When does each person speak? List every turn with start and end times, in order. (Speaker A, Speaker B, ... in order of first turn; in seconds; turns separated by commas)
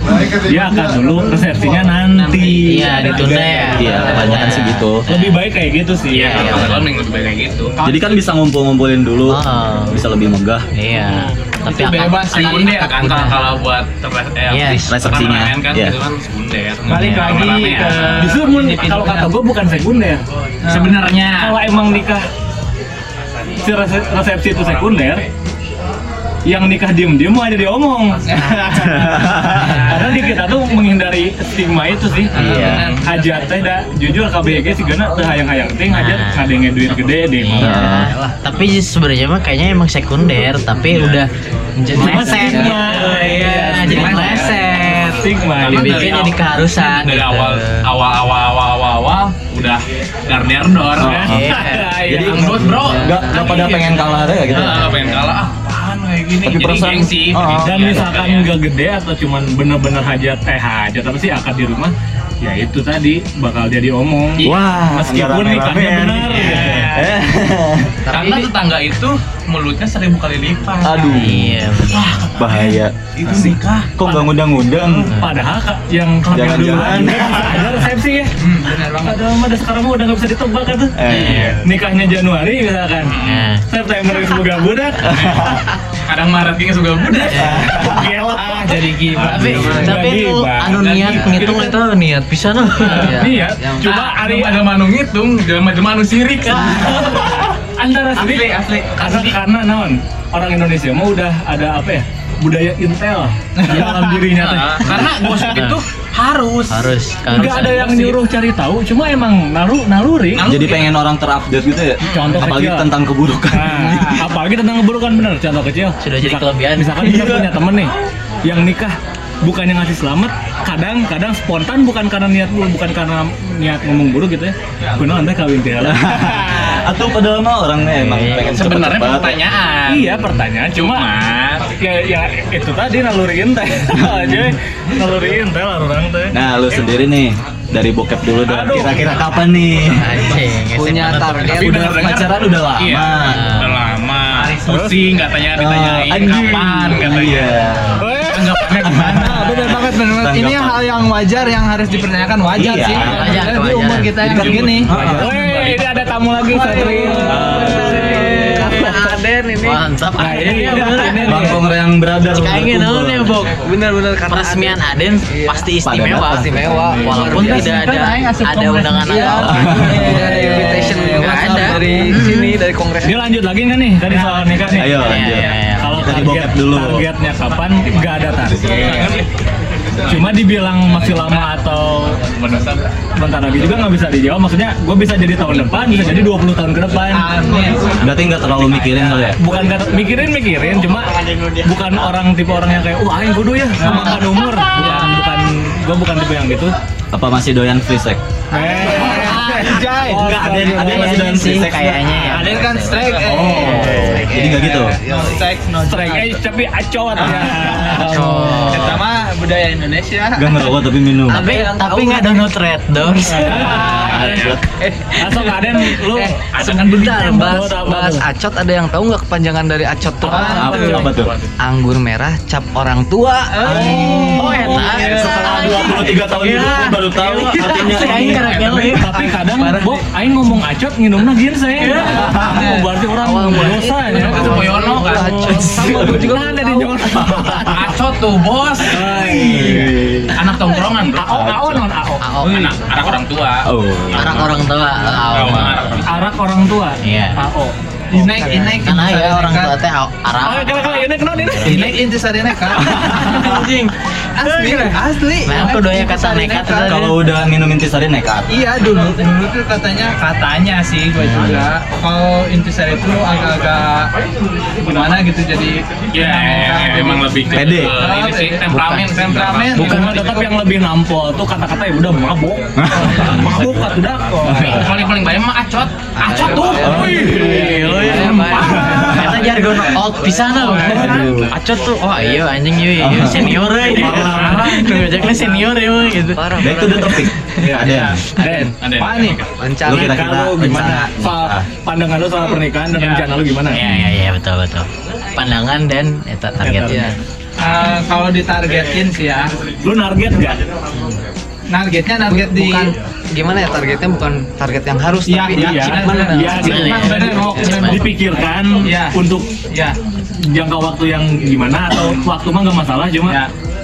Speaker A: 0.4-4.4, Speaker B: 2.1-3.1, Speaker C: 2.6-5.4, Speaker D: 3.8-5.0, Speaker A: 5.1-6.7, Speaker B: 6.1-7.8, Speaker C: 6.1-6.9, Speaker D: 7.8-10.7, Speaker C: 9.2-10.0, Speaker C: 10.8-13.4, Speaker E: 11.7-12.9, Speaker B: 11.9-18.3, Speaker C: 14.5-15.0, Speaker D: 14.9-15.9, Speaker E: 16.9-19.3, Speaker C: 16.9-17.9, Speaker A: 18.1-20.2, Speaker E: 20.6-21.0, Speaker B: 20.7-21.6, Speaker A: 21.2-22.2, Speaker A: 23.6-25.2, Speaker B: 24.6-25.2, Speaker A: 26.5-37.8, Speaker E: 28.3-28.9, Speaker D: 28.8-29.9, Speaker E: 32.3-33.3, Speaker D: 32.3-32.9, Speaker B: 32.5-33.0, Speaker C: 35.9-36.5, Speaker C: 37.4-41.3, Speaker D: 37.6-38.1, Speaker F: 37.8-38.3, Speaker B: 40.9-41.2, Speaker F: 41.8-42.8, Speaker C: 41.9-47.8, Speaker A: 41.9-44.5, Speaker B: 43.8-44.6, Speaker A: 45.2-46.1, Speaker B: 45.5-51.4, Speaker D: 51.0-51.5, Speaker A: 51.0-52.6, Speaker C: 51.2-51.9, Speaker D: 52.0-55.1, Speaker B: 52.1-58.5, Speaker F: 52.7-53.5, Speaker D: 56.4-58.0, Speaker A: 57.5-67.1, Speaker D: 64.4-68.0, Speaker F: 68.1-68.5, Speaker B: 68.1-74.3, Speaker D: 70.8-71.5, Speaker C: 71.1-72.3, Speaker D: 72.3-75.1, Speaker A: 75.1-78.3, Speaker D: 76.3-77.8, Speaker E: 78.4-79.3, Speaker A: 78.9-85.2, Speaker D: 80.9-81.6, Speaker C: 81.1-81.5, Speaker B: 83.0-83.5, Speaker C: 83.2-83.6, Speaker B: 85.1-85.6, Speaker D: 85.1-85.6, Speaker B: 86.1-87.7, Speaker C: 87.3-87.7, Speaker D: 87.3-88.1, Speaker A: 87.5-90.9, Speaker F: 88.9-89.8, Speaker C: 89.1-93.2, Speaker E: 89.2-89.7, Speaker B: 90.7-91.8, Speaker A: 92.8-94.7, Speaker F: 92.9-93.9, Speaker B: 93.8-97.3, Speaker A: 96.5-105.2, Speaker E: 98.1-99.1, Speaker B: 99.0-99.3, Speaker E: 103.6-104.2, Speaker B: 104.3-106.9, Speaker C: 105.1-105.8, Speaker C: 106.7-108.2, Speaker A: 107.3-110.5, Speaker B: 110.3-111.0, Speaker D: 110.4-114.3, Speaker B: 112.0-112.4, Speaker A: 112.1-112.9, Speaker A: 113.5-117.9, Speaker C: 116.0-117.1, Speaker D: 117.0-117.5, Speaker A: 118.4-126.8, Speaker D: 125.8-129.4, Speaker C: 128.0-128.6, Speaker B: 128.4-131.7, Speaker A: 129.9-136.4, Speaker D: 133.9-134.5, Speaker D: 136.3-140.2, Speaker A: 138.4-139.2, Speaker C: 139.9-141.7, Speaker F: 140.7-142.1, Speaker B: 141.5-147.6, Speaker D: 141.5-143.4, Speaker C: 143.2-143.8, Speaker E: 144.6-144.9, Speaker A: 144.7-144.9, Speaker D: 145.5-148.0, Speaker E: 148.1-154.9, Speaker B: 148.2-149.2, Speaker D: 148.8-150.8, Speaker D: 152.5-153.4, Speaker C: 153.0-154.1, Speaker D: 154.2-155.3, Speaker B: 154.2-155.8, Speaker A: 154.9-159.0, Speaker F: 156.5-159.8, Speaker D: 157.3-157.8, Speaker C: 157.3-161.6, Speaker A: 160.2-161.6, Speaker D: 161.2-163.4, Speaker C: 162.2-163.6, Speaker F: 163.6-173.2, Speaker C: 164.3-172.2, Speaker D: 165.8-166.5, Speaker A: 167.1-167.4, Speaker E: 167.1-169.2, Speaker D: 169.4-170.2, Speaker E: 170.2-172.0, Speaker A: 173.0-179.1, Speaker E: 174.1-174.8, Speaker D: 174.7-177.1, Speaker C: 174.9-176.1, Speaker B: 178.7-179.2, Speaker A: 180.0-182.2, Speaker B: 181.0-181.6, Speaker B: 182.1-182.9, Speaker A: 183.2-187.3, Speaker E: 187.1-188.0, Speaker D: 188.0-189.4, Speaker A: 189.4-196.7, Speaker E: 193.8-195.1, Speaker D: 197.1-198.2, Speaker A: 198.5-201.5, Speaker E: 198.5-200.3, Speaker D: 199.2-202.1, Speaker C: 200.6-204.3, Speaker E: 202.1-206.4, Speaker D: 203.3-205.0, Speaker A: 203.5-204.1, Speaker A: 205.8-208.8, Speaker E: 207.2-208.2, Speaker C: 207.8-209.0, Speaker E: 208.7-210.7, Speaker D: 210.3-211.5, Speaker C: 211.2-214.5, Speaker E: 211.5-212.0, Speaker F: 211.5-212.2, Speaker A: 213.3-214.4, Speaker D: 213.8-214.6, Speaker B: 214.1-214.5, Speaker F: 214.8-215.2, Speaker A: 215.1-218.2, Speaker F: 216.1-221.1, Speaker B: 216.5-216.9, Speaker E: 220.3-221.1, Speaker D: 220.5-221.3, Speaker B: 220.9-221.5, Speaker F: 221.6-224.2, Speaker E: 223.6-225.3, Speaker D: 223.6-228.7, Speaker C: 223.7-229.9, Speaker A: 223.9-225.9, Speaker A: 227.8-237.9, Speaker F: 229.2-229.9, Speaker C: 231.8-232.3, Speaker E: 231.8-232.7, Speaker F: 232.0-237.1, Speaker B: 234.1-235.6, Speaker D: 235.9-236.3, Speaker D: 237.1-237.6, Speaker B: 237.6-239.1, Speaker A: 238.8-240.0, Speaker D: 239.1-240.3, Speaker B: 240.3-241.2, Speaker A: 241.0-242.4, Speaker D: 241.2-241.8, Speaker C: 242.2-242.7, Speaker B: 242.4-243.7, Speaker D: 243.7-244.5, Speaker C: 244.1-246.0, Speaker B: 244.2-244.4, Speaker B: 245.3-246.2, Speaker A: 246.1-247.7, Speaker C: 247.0-247.4, Speaker E: 248.1-249.7, Speaker F: 248.3-248.8, Speaker C: 248.7-251.9, Speaker A: 250.4-252.0, Speaker E: 251.6-253.7, Speaker C: 252.9-257.1, Speaker E: 254.4-257.1, Speaker D: 256.8-258.5, Speaker E: 258.5-264.1, Speaker E: 264.8-270.5, Speaker B: 266.1-270.2, Speaker D: 267.5-267.9, Speaker A: 269.7-274.9, Speaker D: 272.8-273.5, Speaker B: 274.5-277.5, Speaker F: 276.1-279.0, Speaker D: 276.7-277.6, Speaker A: 276.9-278.6, Speaker C: 277.0-287.3, Speaker D: 278.6-279.8, Speaker A: 280.5-281.4, Speaker D: 280.9-281.5, Speaker D: 283.0-284.6, Speaker B: 284.1-285.2, Speaker F: 286.3-287.3, Speaker D: 286.6-288.2, Speaker E: 287.7-289.4, Speaker A: 287.7-288.7, Speaker F: 288.4-288.7, Speaker B: 288.8-289.5, Speaker F: 289.6-290.4, Speaker D: 289.8-291.7, Speaker A: 289.9-293.8, Speaker B: 292.9-293.2, Speaker C: 293.7-294.9, Speaker C: 295.4-297.1, Speaker A: 296.6-297.2, Speaker F: 296.9-297.1, Speaker E: 297.6-299.5, Speaker A: 299.8-300.6, Speaker E: 301.7-302.9, Speaker F: 302.3-307.9, Speaker E: 305.2-308.1, Speaker A: 305.5-309.5, Speaker C: 306.5-308.0, Speaker E: 308.8-309.2, Speaker E: 309.7-309.9, Speaker A: 310.4-313.4